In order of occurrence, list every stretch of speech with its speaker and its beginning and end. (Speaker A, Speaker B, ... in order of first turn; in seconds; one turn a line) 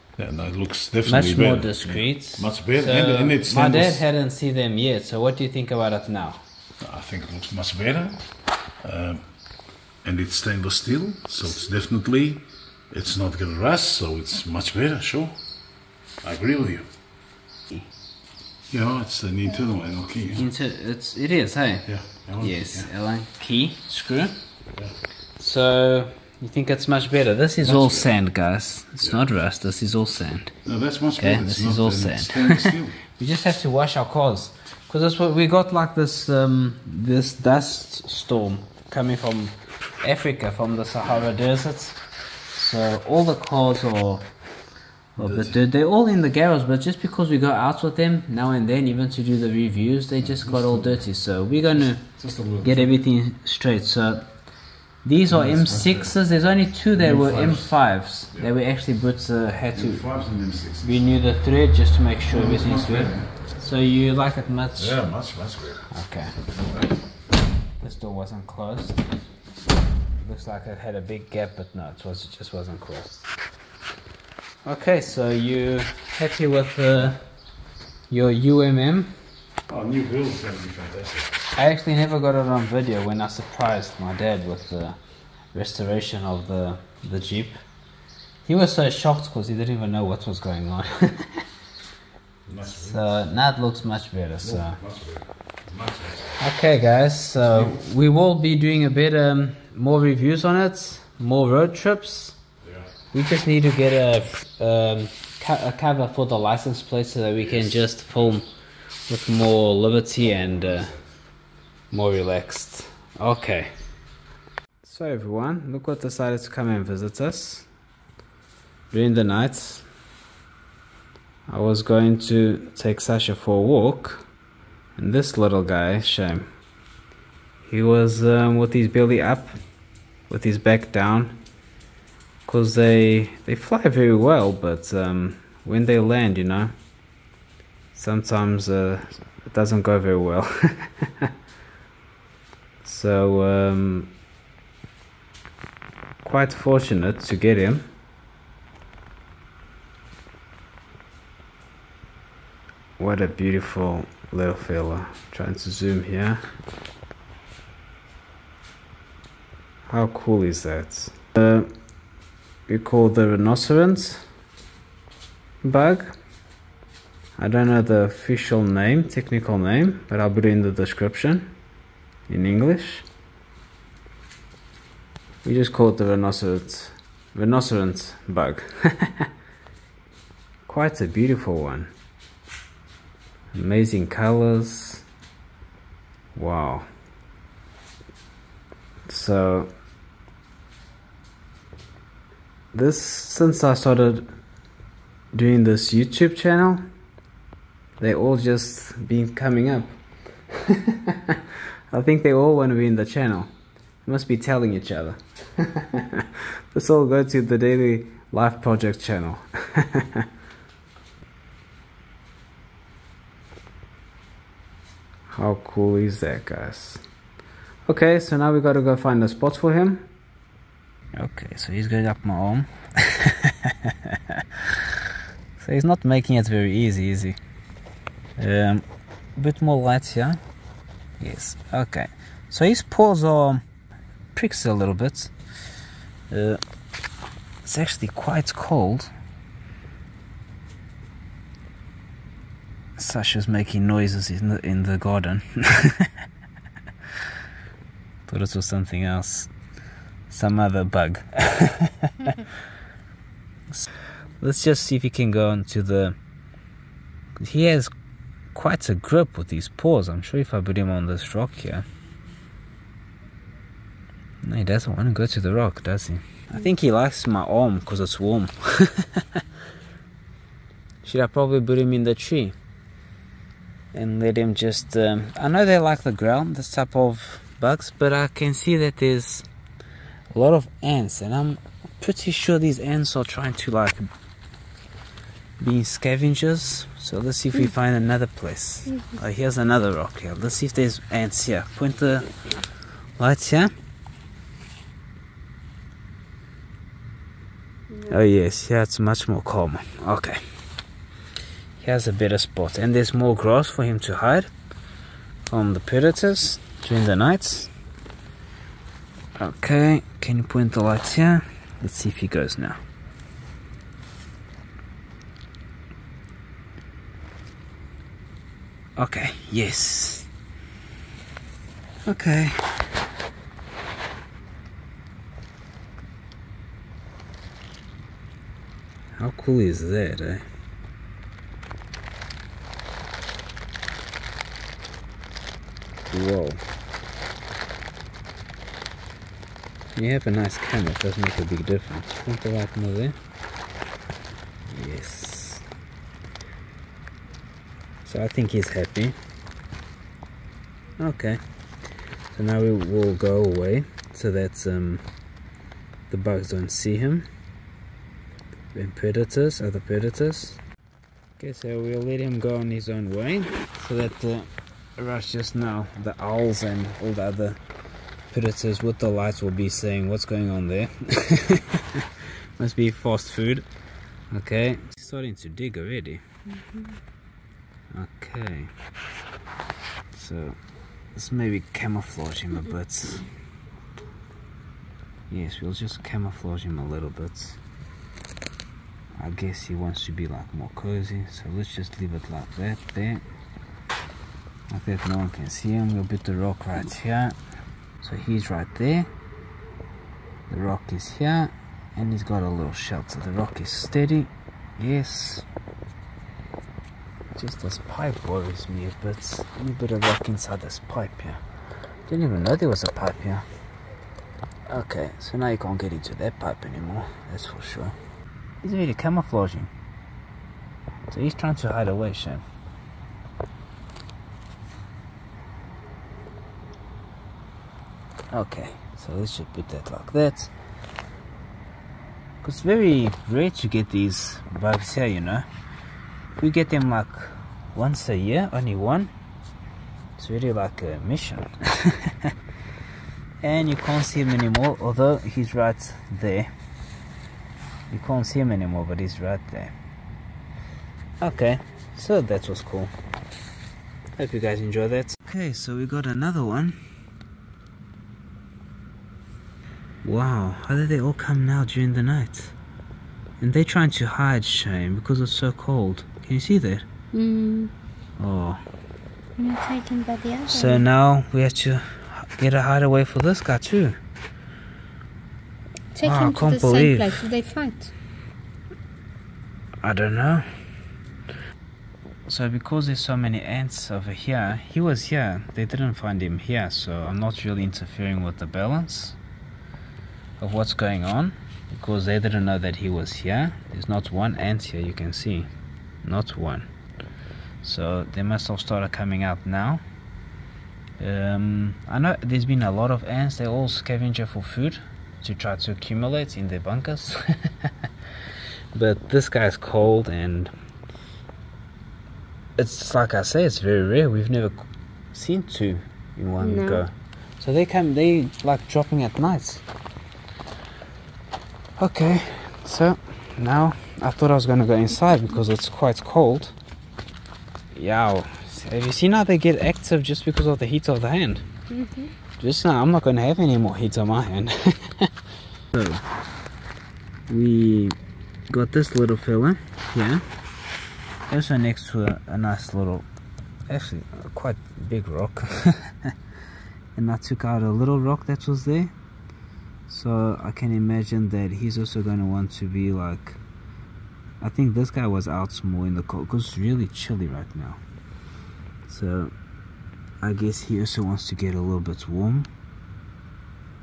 Speaker A: 0.2-4.0
Speaker B: 1.1-6.4
Speaker A: 6.8-8.2
Speaker A: 8.8-9.2
Speaker A: 10.0-15.4
Speaker A: 16.2-16.8
Speaker A: 18.7-20.5
Speaker B: 20.3-24.4
Speaker A: 21.9-22.9
Speaker B: 25.4-30.6
Speaker A: 27.6-28.1
Speaker A: 30.6-33.0
Speaker B: 31.2-42.0
Speaker B: 42.5-44.3
Speaker B: 45.1-52.0
Speaker A: 45.2-45.6
Speaker A: 50.2-51.0
Speaker A: 51.8-53.0
Speaker B: 52.6-54.3
Speaker B: 55.0-60.0
Speaker A: 55.3-56.1
Speaker A: 57.0-57.7
Speaker A: 59.7-61.0
Speaker B: 60.8-65.0
Speaker A: 62.3-63.3
Speaker A: 64.8-65.9
Speaker B: 65.9-66.3
Speaker A: 66.4-66.9
Speaker B: 67.8-69.0
Speaker B: 70.2-73.3
Speaker B: 74.7-77.2
Speaker B: 78.1-79.1
Speaker A: 79.7-81.3
Speaker B: 81.5-85.0
Speaker B: 85.5-87.6
Speaker B: 88.4-91.4
Speaker A: 92.5-93.2
Speaker B: 92.7-94.8
Speaker A: 94.4-96.4
Speaker B: 96.4-102.4
Speaker A: 97.4-97.8
Speaker A: 102.6-102.9
Speaker B: 103.1-108.5
Speaker A: 107.4-108.3
Speaker B: 109.1-110.9
Speaker B: 111.9-113.7
Speaker B: 114.8-117.7
Speaker B: 118.9-119.8
Speaker B: 121.5-124.2
Speaker B: 125.0-126.5
Speaker B: 127.6-129.6
Speaker B: 130.3-131.4
Speaker B: 132.4-136.7
Speaker B: 137.9-141.3
Speaker B: 142.8-144.1
Speaker B: 146.2-147.9
Speaker B: 153.0-156.4
Speaker B: 159.9-161.7
Speaker B: 162.7-164.2
Speaker B: 165.6-166.2
Speaker B: 167.4-171.5
Speaker B: 172.3-173.1
Speaker B: 175.4-179.3
Speaker B: 180.7-181.9
Speaker B: 183.5-185.0
Speaker B: 186.3-186.9
Speaker B: 189.1-189.7
Speaker B: 192.7-194.3
Speaker B: 195.3-196.8
Speaker B: 198.0-199.9
Speaker B: 200.5-203.5
Speaker B: 204.0-210.3
Speaker B: 215.3-217.0
Speaker B: 217.9-220.1
Speaker B: 221.1-224.9
Speaker B: 225.6-227.4
Speaker B: 228.4-228.8
Speaker B: 229.3-230.4
Speaker B: 231.2-233.6
Speaker B: 234.3-235.3
Speaker B: 236.3-236.6
Speaker B: 237.6-239.1
Speaker B: 243.0-246.1
Speaker B: 248.3-249.5
Speaker B: 250.3-252.5
Speaker B: 254.4-256.2
Speaker B: 257.4-257.9
Speaker B: 258.5-261.8
Speaker B: 264.4-269.4
Speaker B: 271.0-272.5
Speaker B: 273.9-279.4
Speaker B: 280.3-284.1
Speaker B: 285.6-292.3
Speaker C: 288.9-289.2
Speaker B: 293.2-293.7
Speaker B: 298.1-300.4
Speaker B: 301.8-304.5
Speaker B: 305.5-307.7
Speaker B: 309.4-312.8
Speaker B: 319.0-320.3
Speaker B: 322.1-322.7
Speaker B: 329.1-330.4
Speaker B: 336.1-336.6
Speaker B: 339.9-343.1
Speaker B: 344.7-345.6
Speaker B: 348.0-349.1
Speaker B: 351.0-351.4
Speaker B: 352.3-355.0
Speaker B: 356.1-357.2
Speaker B: 358.7-360.6
Speaker B: 361.4-367.6
Speaker B: 368.3-373.6
Speaker B: 374.3-376.2
Speaker C: 376.5-376.9
Speaker B: 377.9-378.7
Speaker B: 380.1-380.6
Speaker B: 381.1-383.2
Speaker B: 385.3-387.6
Speaker B: 389.2-393.2
Speaker B: 394.7-397.4
Speaker B: 398.0-399.1
Speaker B: 400.5-405.4
Speaker B: 407.3-411.4
Speaker B: 412.1-413.4
Speaker B: 414.7-417.9
Speaker B: 418.6-419.7
Speaker B: 421.1-422.4
Speaker B: 428.3-430.5
Speaker B: 432.4-435.4
Speaker B: 436.4-439.1
Speaker B: 440.2-442.3
Speaker B: 443.4-446.5
Speaker B: 447.9-449.7
Speaker B: 451.2-452.9
Speaker B: 454.2-456.8
Speaker B: 460.0-462.6
Speaker B: 463.4-466.8
Speaker C: 467.1-467.7
Speaker B: 468.2-468.6
Speaker C: 469.4-470.9
Speaker B: 470.5-474.0
Speaker C: 475.9-477.9
Speaker B: 476.0-477.2
Speaker B: 479.8-480.5
Speaker B: 482.3-489.2
Speaker B: 490.4-495.5
Speaker B: 496.0-496.7
Speaker B: 497.6-499.8
Speaker B: 501.0-507.7
Speaker B: 508.7-510.5
Speaker B: 512.6-519.6
Speaker C: 516.4-516.8
Speaker B: 521.8-526.5
Speaker B: 527.7-531.5
Speaker C: 531.7-532.1
Speaker B: 532.4-535.1
Speaker B: 535.7-536.0
Speaker B: 537.3-538.0
Speaker B: 538.5-540.2
Speaker B: 541.3-543.0
Speaker B: 543.7-546.1
Speaker B: 546.9-548.9
Speaker B: 549.9-553.4
Speaker B: 554.4-557.8
Speaker B: 558.9-559.3
Speaker B: 560.2-562.5